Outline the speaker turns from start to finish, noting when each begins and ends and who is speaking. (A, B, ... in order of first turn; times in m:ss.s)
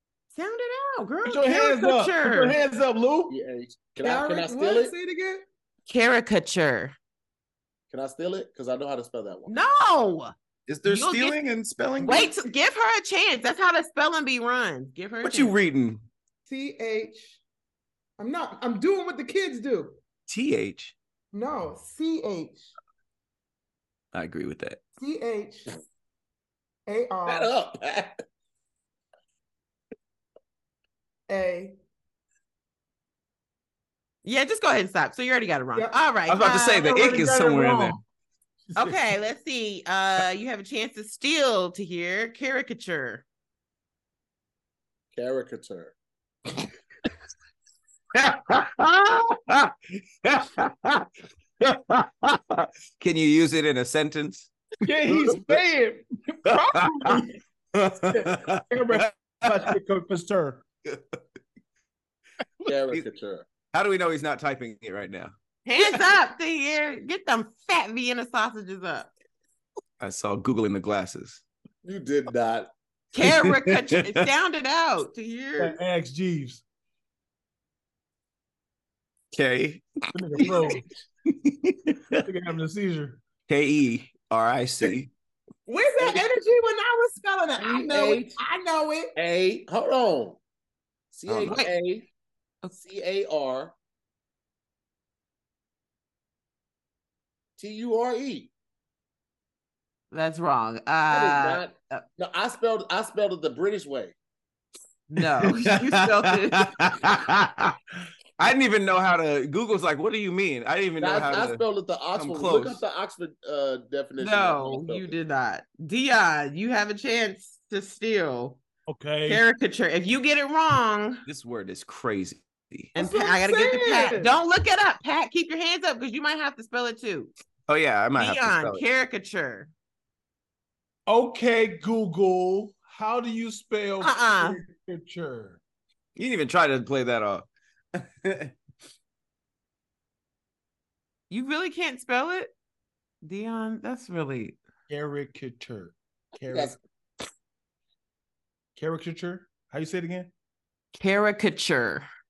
0:00.3-0:02.6 A
0:01.2-0:03.4 B
0:03.3-0:04.9 C
0:04.0-0:05.4 D
0:05.9-0:06.9 A
0:07.9-0:09.6 C
0:09.5-0:10.3 A
0:10.7-0:12.3 E
0:10.8-0:11.4 A
0:12.0-0:15.5 A
0:15.2-0:16.0 E
0:16.5-0:17.4 D
0:18.2-0:20.0 D
0:20.3-0:20.9 E
0:21.3-0:22.7 D
0:24.1-0:24.8 E
0:25.0-0:25.7 D
0:26.9-0:27.5 D
0:27.2-0:28.1 C
0:31.3-0:31.7 D
0:34.2-0:36.9 A
0:35.7-0:36.0 D
0:36.3-0:38.0 E
0:36.8-0:37.9 D
0:37.4-0:38.0 B
0:38.7-0:39.0 B
0:38.8-0:43.2 A
0:45.1-0:45.9 C
0:48.1-0:51.1 E
0:51.6-0:54.6 E
0:54.8-0:57.3 B
0:55.1-0:55.6 E
0:56.4-0:57.2 E
0:57.8-0:59.7 E
0:58.1-1:00.6 B
1:02.6-1:03.4 C
1:03.7-1:05.3 E
1:05.6-1:09.1 A
1:10.0-1:11.4 E
1:11.8-1:12.7 C
1:13.1-1:15.8 A
1:13.2-1:14.3 E
1:15.6-1:16.6 B
1:19.3-1:19.9 E
1:20.1-1:20.9 B
1:20.4-1:20.7 E
1:21.3-1:22.2 E
1:22.2-1:23.2 B
1:23.5-1:25.1 E
1:25.7-1:29.1 D
1:27.6-1:28.4 C
1:29.1-1:30.4 C
1:31.1-1:32.1 C
1:31.3-1:31.5 E
1:31.4-1:31.7 A
1:32.7-1:33.7 C
1:37.6-1:38.5 C
1:40.1-1:42.0 A
1:41.1-1:44.1 C
1:45.1-1:46.9 A
1:45.2-1:47.8 E
1:48.4-1:51.6 E
1:51.0-1:55.1 C
1:52.1-1:52.8 E
1:54.2-1:58.6 A
1:58.9-1:59.4 B
1:59.2-2:01.2 A
2:01.2-2:02.9 E
2:02.9-2:07.3 A
2:03.0-2:04.4 D
2:07.7-2:08.9 E
2:08.2-2:09.7 A
2:11.1-2:15.6 B
2:14.0-2:14.6 A
2:16.2-2:18.6 E
2:21.3-2:22.5 A
2:23.2-2:24.6 A
2:24.9-2:26.8 B
2:26.4-2:26.8 C
2:28.7-2:30.3 B
2:30.9-2:32.1 A